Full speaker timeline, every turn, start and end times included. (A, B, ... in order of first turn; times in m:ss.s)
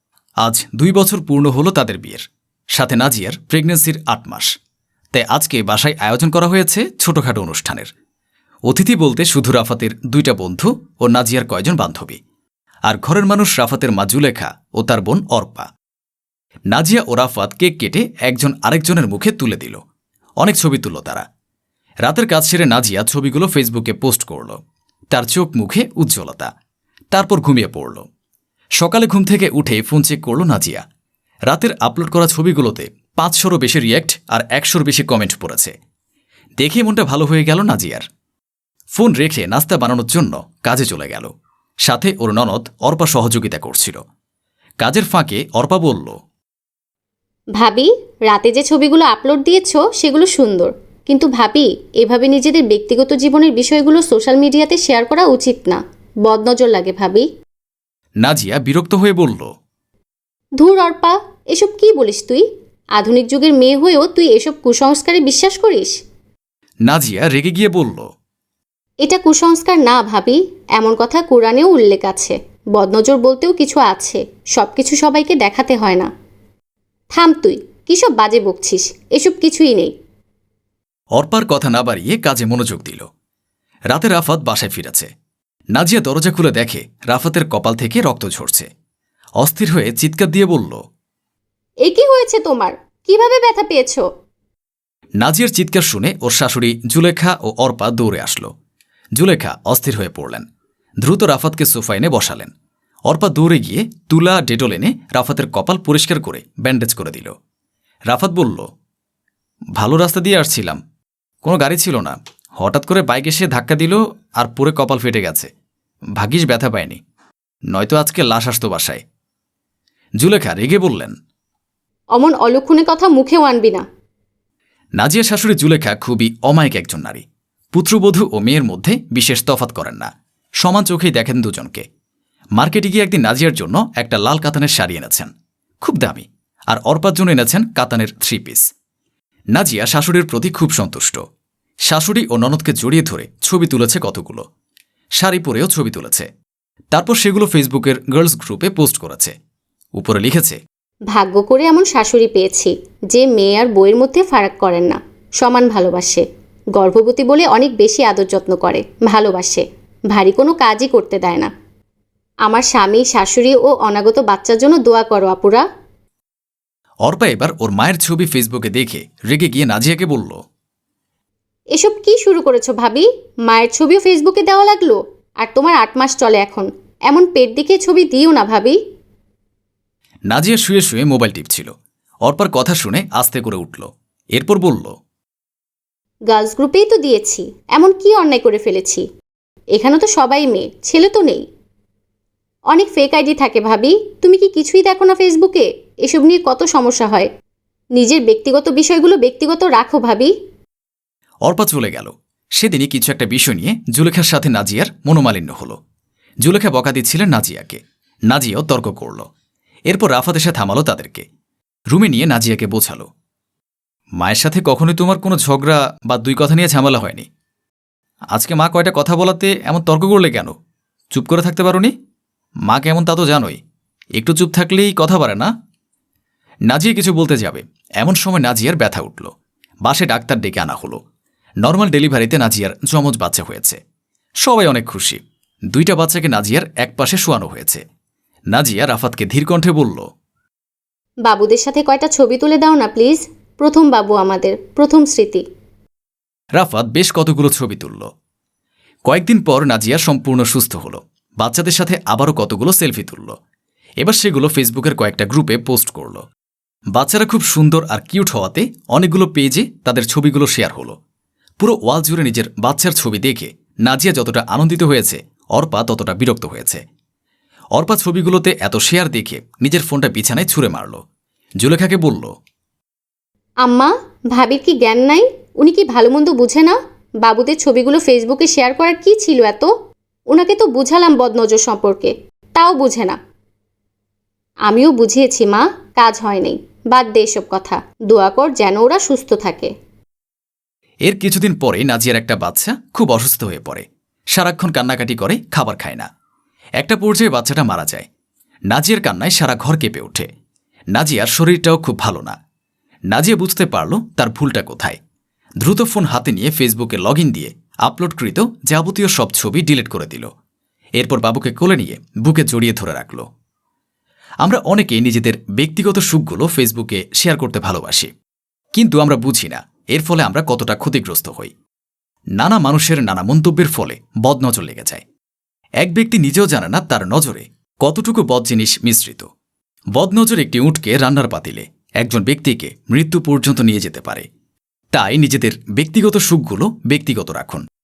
0:00.4-0:04.5 A
0:05.1-0:07.9 A
0:08.7-0:12.2 A
0:12.9-0:15.7 A
0:16.7-0:19.8 A
0:20.4-0:21.2 A
0:22.0-0:24.6 A
0:25.1-0:26.5 A
0:27.1-0:28.0 A
0:28.8-0:30.8 A
0:31.5-0:35.7 A
0:36.6-0:38.0 A
0:38.9-0:41.3 A
0:41.8-0:44.0 A
0:44.8-0:46.2 A
0:47.6-0:57.3 B
0:58.2-0:59.5 A
1:00.6-1:02.4 B
1:03.0-1:05.9 B
1:06.9-1:08.1 A
1:09.0-1:16.1 B
1:17.1-1:19.9 B
1:21.2-1:23.0 A
1:23.9-1:25.1 A
1:25.7-1:28.7 A
1:29.4-1:30.8 A
1:31.8-1:34.0 B
1:35.2-1:38.5 A
1:39.2-1:40.4 A
1:41.0-1:42.5 A
1:43.1-1:47.3 A
1:48.1-1:48.7 A
1:49.8-1:50.8 A
1:51.4-1:55.5 A
1:56.2-1:57.0 A
1:57.7-1:59.0 A
2:00.2-2:01.1 A
2:02.2-2:03.8 B
2:05.0-2:07.2 A
2:07.7-2:10.1 A
2:10.6-2:11.8 A
2:12.6-2:15.3 A
2:15.8-2:18.6 A
2:19.5-2:21.2 A
2:21.9-2:24.4 A
2:25.2-2:26.3 A
2:26.9-2:29.3 A
2:30.0-2:30.6 A
2:31.1-2:41.5 B
2:42.4-2:45.6 B
2:47.0-2:50.4 A
2:51.8-2:58.8 B
3:00.3-3:01.7 A
3:02.2-3:04.9 A
3:06.3-3:09.0 B
3:09.8-3:11.4 B
3:12.7-3:17.3 B
3:18.0-3:20.3 B
3:21.4-3:25.8 A
3:26.4-3:29.2 A
3:29.9-3:31.2 A
3:31.9-3:33.1 A
3:34.2-3:37.3 A
3:38.3-3:40.5 A
3:41.1-3:41.9 A
3:42.7-3:43.6 A
3:44.2-3:45.5 A
3:46.7-3:49.3 A
3:49.8-3:51.0 A
3:51.6-3:53.8 A
3:54.4-3:55.2 A
3:55.7-3:57.8 A
3:58.5-4:00.0 A
4:01.2-4:05.4 B
4:06.6-4:08.1 A
4:09.1-4:13.3 A
4:14.0-4:16.2 A
4:16.9-4:20.9 A
4:21.6-4:26.8 A
4:27.8-4:31.0 A
4:31.6-4:32.3 A
4:33.6-4:39.7 B
4:40.3-4:43.2 B
4:44.6-4:49.7 B
4:51.0-4:56.1 A
4:56.8-4:58.1 A
4:58.7-5:00.3 A
5:00.9-5:02.3 A
5:03.1-5:05.0 A
5:05.6-5:10.3 A
5:11.0-5:13.2 A
5:14.4-5:18.1 A
5:18.8-5:21.5 A
5:22.4-5:25.0 A
5:25.8-5:29.3 A
5:29.9-5:34.2 A
5:34.9-5:37.6 A